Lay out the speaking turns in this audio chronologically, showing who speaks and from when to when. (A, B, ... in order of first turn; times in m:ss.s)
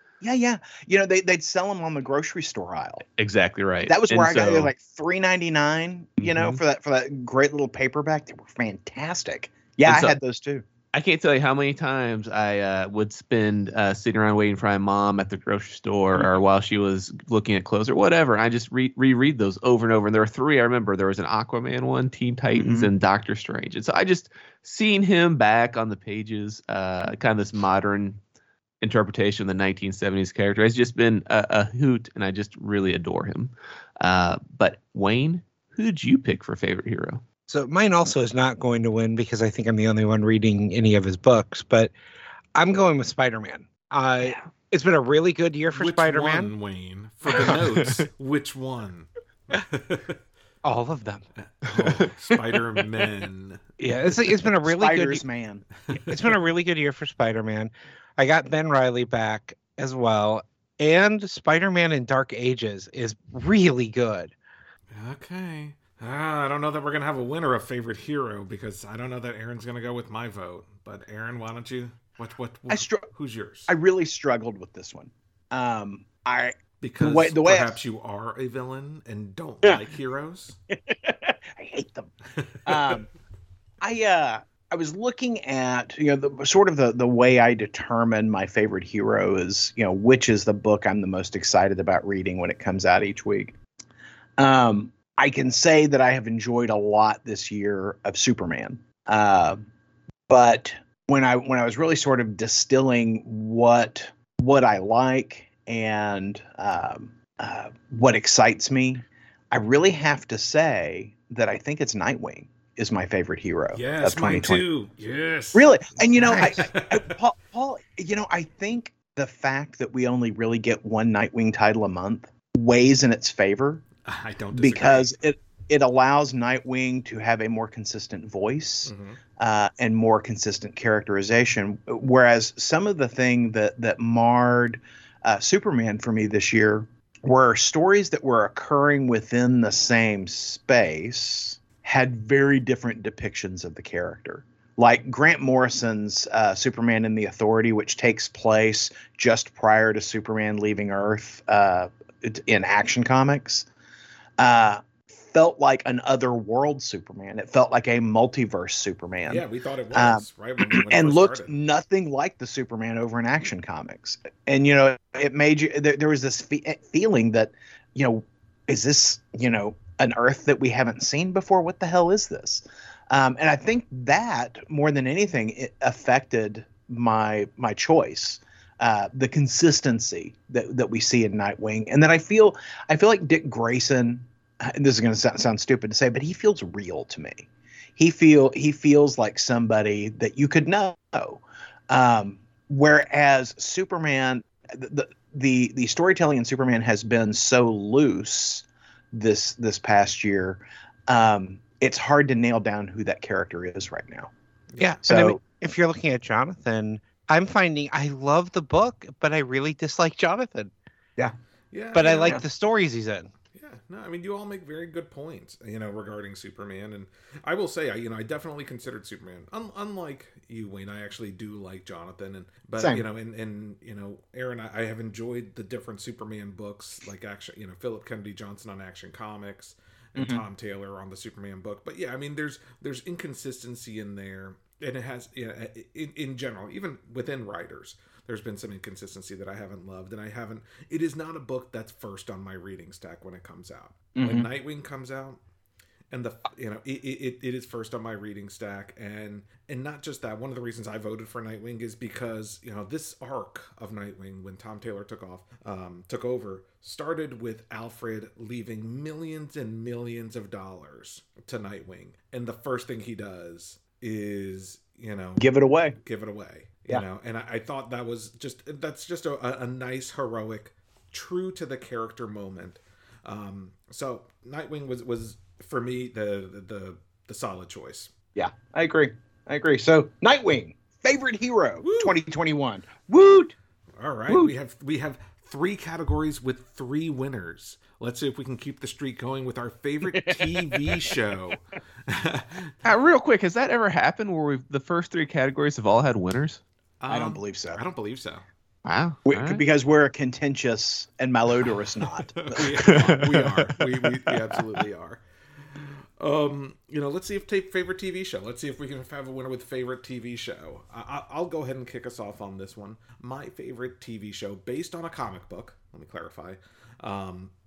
0:00.2-0:03.0 A
0:03.2-0:04.7 B
0:03.9-0:10.6 A
0:06.2-0:06.6 B
0:09.8-0:10.2 B
0:10.9-0:28.2 B
0:22.5-0:22.9 A
0:28.8-0:37.2 B
0:37.5-0:41.9 C
0:42.6-0:46.5 C
0:45.7-0:50.2 D
0:47.3-0:47.6 C
0:50.6-0:51.2 C
0:51.6-0:53.6 D
0:53.8-0:55.2 C
0:54.7-0:55.7 A
0:55.9-0:56.2 D
0:56.1-1:04.3 C
1:04.9-1:13.7 D
1:12.7-1:13.1 A
1:13.7-1:17.8 A
1:16.8-1:20.6 D
1:20.9-1:22.1 A
1:22.7-1:23.1 A
1:22.7-1:23.0 D
1:23.8-1:33.6 A
1:34.4-1:39.6 A
1:40.3-1:54.6 A
1:53.7-1:57.1 D
1:55.5-2:03.8 A
2:04.1-2:05.2 D
2:04.6-2:33.7 A
2:08.9-2:09.2 D
2:34.4-3:24.3 A
2:39.3-2:41.5 D
3:24.7-3:25.0 D
3:24.8-3:30.7 C
3:25.1-3:25.4 A
3:31.7-3:32.4 D
3:31.9-3:33.3 C
3:33.5-4:05.4 D
3:50.2-3:50.4 A
4:04.2-4:04.5 A
4:06.1-4:25.5 D
4:25.4-4:26.0 A
4:26.0-4:38.1 D
4:38.4-4:43.6 A
4:41.8-4:42.2 D
4:44.0-4:52.7 D
4:44.3-4:44.5 A
4:50.1-4:51.1 A
4:52.8-4:56.6 B
4:57.0-4:58.4 D
4:57.1-4:57.8 A
4:58.8-4:59.6 B
4:59.3-5:03.2 A
5:02.5-5:05.2 D
5:02.9-5:03.5 B
5:05.7-5:17.5 D